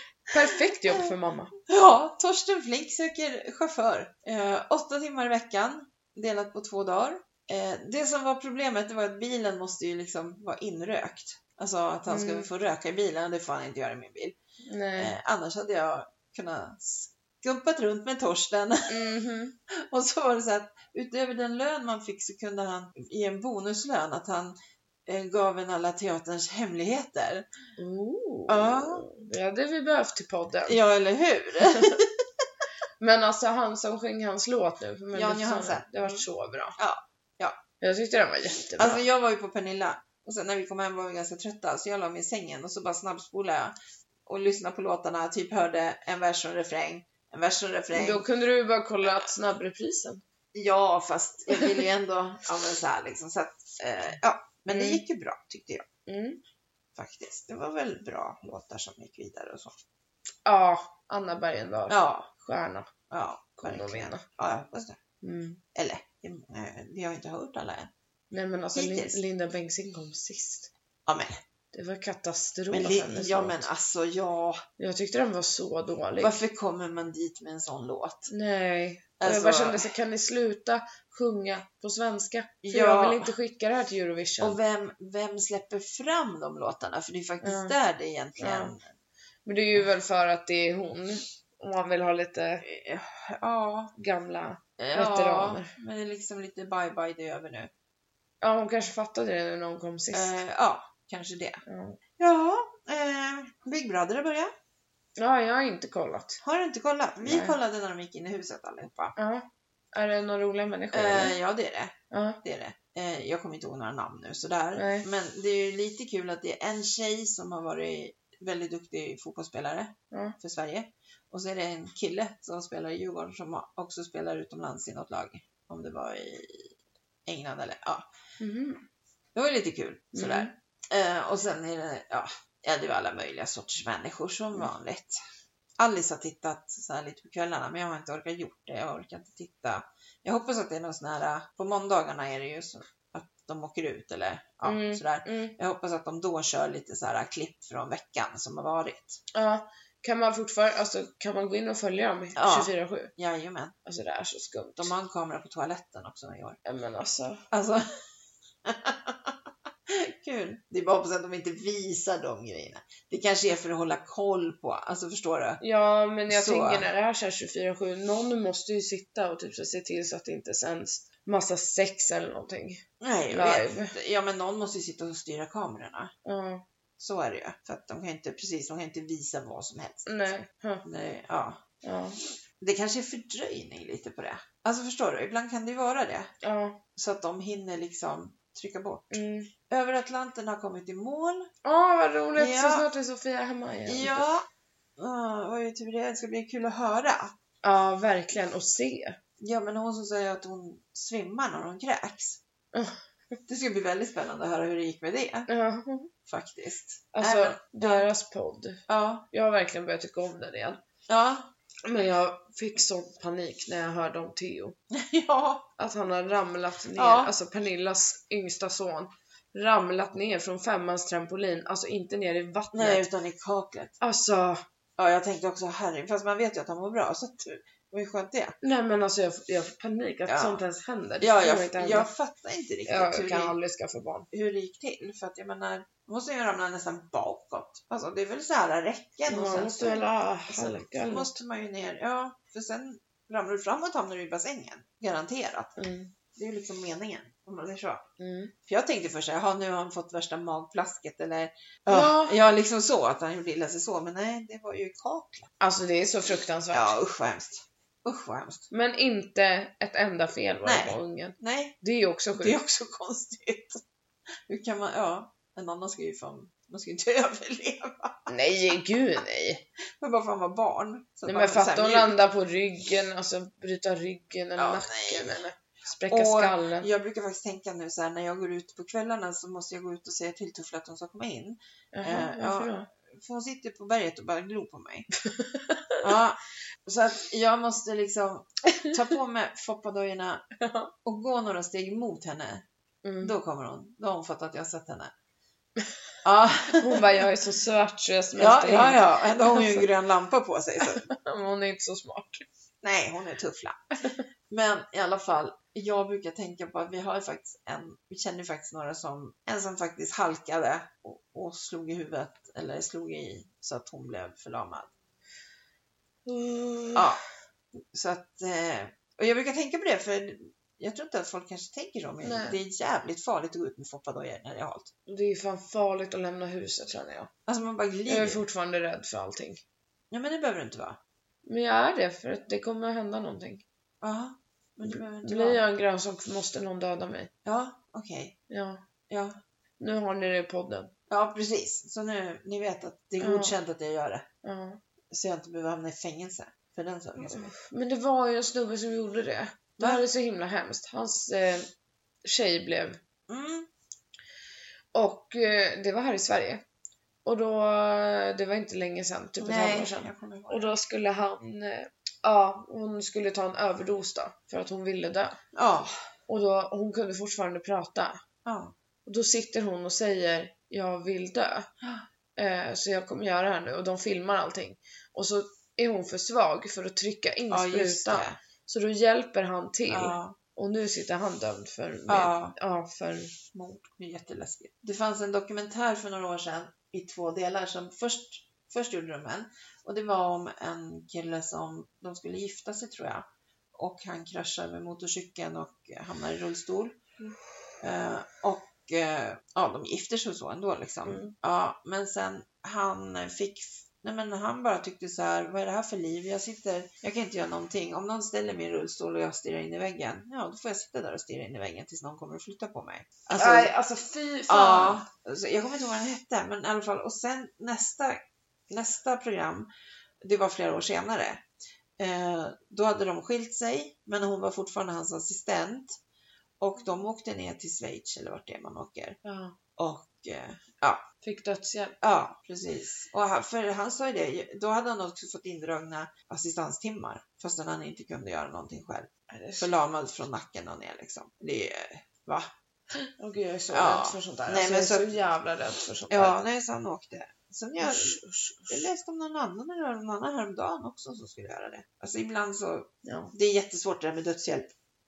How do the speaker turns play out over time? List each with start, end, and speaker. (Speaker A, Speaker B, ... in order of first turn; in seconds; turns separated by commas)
Speaker A: 0.3-1.5, Speaker B: 1.7-14.4, Speaker A: 12.1-12.5, Speaker A: 14.7-15.1, Speaker B: 15.0-19.1, Speaker A: 18.9-19.6, Speaker B: 19.7-24.6, Speaker B: 25.1-27.4, Speaker A: 27.8-30.8, Speaker B: 28.5-29.1, Speaker B: 30.7-32.1, Speaker A: 31.6-32.0, Speaker A: 33.0-36.8, Speaker B: 35.1-36.3, Speaker B: 36.8-37.6, Speaker A: 37.8-39.0, Speaker B: 38.8-43.8, Speaker B: 44.3-48.2, Speaker A: 47.9-50.2, Speaker B: 50.5-55.9, Speaker A: 54.7-55.0, Speaker A: 56.1-56.4, Speaker B: 57.0-59.8, Speaker A: 60.5-62.9, Speaker B: 61.9-62.3, Speaker B: 63.1-65.0, Speaker A: 63.6-64.2, Speaker A: 65.2-65.6, Speaker B: 65.8-67.9, Speaker A: 68.3-70.7, Speaker B: 68.8-69.2, Speaker B: 71.1-71.4, Speaker A: 71.7-73.7, Speaker B: 72.7-74.6, Speaker A: 74.8-76.4, Speaker B: 76.2-78.3, Speaker A: 78.3-84.6, Speaker B: 79.2-79.9, Speaker B: 82.6-83.3, Speaker B: 84.4-88.9, Speaker A: 87.4-87.8, Speaker A: 88.4-88.8, Speaker A: 89.5-92.7, Speaker B: 92.6-93.9, Speaker A: 94.0-95.7, Speaker B: 94.8-97.7, Speaker A: 98.4-100.4, Speaker B: 100.1-101.6, Speaker A: 101.7-102.0, Speaker B: 102.2-104.5, Speaker A: 105.2-106.4, Speaker B: 106.4-109.2, Speaker A: 107.2-107.6, Speaker A: 109.2-111.4, Speaker B: 110.9-126.7, Speaker A: 112.1-112.4, Speaker A: 114.8-115.1, Speaker B: 127.3-128.1, Speaker A: 128.4-128.8, Speaker B: 129.3-135.2, Speaker A: 130.1-130.5, Speaker B: 135.8-149.2, Speaker A: 144.6-145.6, Speaker A: 149.3-153.1, Speaker B: 152.4-153.8, Speaker A: 153.8-154.9, Speaker B: 154.8-156.6, Speaker A: 156.7-157.4, Speaker B: 157.5-157.8, Speaker B: 158.7-159.4, Speaker B: 159.9-165.6, Speaker A: 165.6-173.9, Speaker B: 166.3-166.9, Speaker B: 173.0-176.1, Speaker A: 176.2-176.6, Speaker B: 177.0-180.2, Speaker A: 180.1-180.8, Speaker B: 180.8-181.6, Speaker A: 181.8-182.2, Speaker B: 182.6-186.3, Speaker A: 186.4-186.8, Speaker B: 187.0-189.1, Speaker A: 189.1-189.5, Speaker B: 189.7-191.5, Speaker A: 191.7-194.3, Speaker B: 192.4-192.9, Speaker B: 193.9-194.5, Speaker B: 195.0-197.3, Speaker A: 197.6-199.2, Speaker B: 199.4-202.4, Speaker A: 202.7-203.0, Speaker B: 203.5-205.5, Speaker A: 205.5-206.1, Speaker B: 206.3-208.1, Speaker A: 207.1-210.8, Speaker B: 208.9-209.3, Speaker B: 211.1-211.5, Speaker A: 211.9-214.8, Speaker B: 214.9-215.7, Speaker A: 215.8-223.1, Speaker B: 216.9-217.3, Speaker B: 222.7-223.9, Speaker A: 224.0-224.6, Speaker B: 225.0-228.6, Speaker A: 228.6-232.1, Speaker B: 230.3-230.6, Speaker B: 231.2-233.6, Speaker A: 232.9-234.3, Speaker B: 234.3-245.7, Speaker A: 239.3-241.3, Speaker A: 245.8-246.1, Speaker B: 246.3-248.0, Speaker A: 248.2-248.5, Speaker B: 248.7-255.5, Speaker A: 251.9-252.4, Speaker A: 255.6-257.0, Speaker B: 256.7-258.7, Speaker A: 258.7-262.6, Speaker B: 260.6-261.8, Speaker B: 262.4-263.8, Speaker B: 264.5-268.3, Speaker A: 268.3-269.6, Speaker B: 270.0-272.2, Speaker A: 271.3-276.9, Speaker B: 274.6-275.4, Speaker B: 276.1-285.1, Speaker A: 281.9-282.9, Speaker A: 285.2-286.0, Speaker B: 286.0-290.4, Speaker A: 290.6-290.9, Speaker B: 291.1-292.6, Speaker A: 293.0-293.3, Speaker B: 293.2-295.1, Speaker B: 296.2-297.1, Speaker A: 296.8-299.9, Speaker B: 298.4-301.1, Speaker A: 300.8-302.5, Speaker B: 302.8-303.9, Speaker B: 304.5-314.9, Speaker A: 316.3-317.1, Speaker B: 316.9-317.2, Speaker B: 317.8-324.9, Speaker A: 322.2-322.6, Speaker A: 325.1-327.3, Speaker B: 327.5-328.4, Speaker A: 328.1-329.6, Speaker B: 330.1-331.0, Speaker A: 331.5-333.6, Speaker B: 334.0-335.6, Speaker A: 334.9-337.3, Speaker B: 337.4-338.4, Speaker A: 338.5-338.8, Speaker B: 339.1-339.4, Speaker A: 339.8-340.9, Speaker B: 341.1-344.3, Speaker A: 343.2-343.6, Speaker A: 344.4-344.8, Speaker B: 345.1-347.5, Speaker A: 347.2-351.7, Speaker B: 349.8-350.0, Speaker A: 352.2-353.0, Speaker B: 353.3-353.7, Speaker A: 354.9-356.6, Speaker A: 357.2-365.4, Speaker B: 359.4-360.7, Speaker B: 365.5-365.9, Speaker A: 366.3-368.2, Speaker B: 368.4-368.8, Speaker A: 369.1-371.7, Speaker B: 371.8-372.1, Speaker A: 372.4-383.4, Speaker B: 377.5-378.4, Speaker B: 379.9-380.4, Speaker B: 382.1-382.6, Speaker B: 383.5-397.0, Speaker B: 397.8-413.7, Speaker A: 401.1-401.4, Speaker A: 413.4-415.0, Speaker B: 414.5-419.7, Speaker B: 420.2-421.4, Speaker B: 422.0-426.0, Speaker B: 426.6-429.2, Speaker A: 429.2-429.6, Speaker B: 429.8-431.0, Speaker A: 431.2-432.0, Speaker B: 432.0-442.5, Speaker A: 439.3-439.7, Speaker A: 443.2-446.4, Speaker B: 443.7-445.2, Speaker B: 446.1-448.2, Speaker A: 447.8-448.9, Speaker B: 448.7-454.7, Speaker A: 453.0-453.3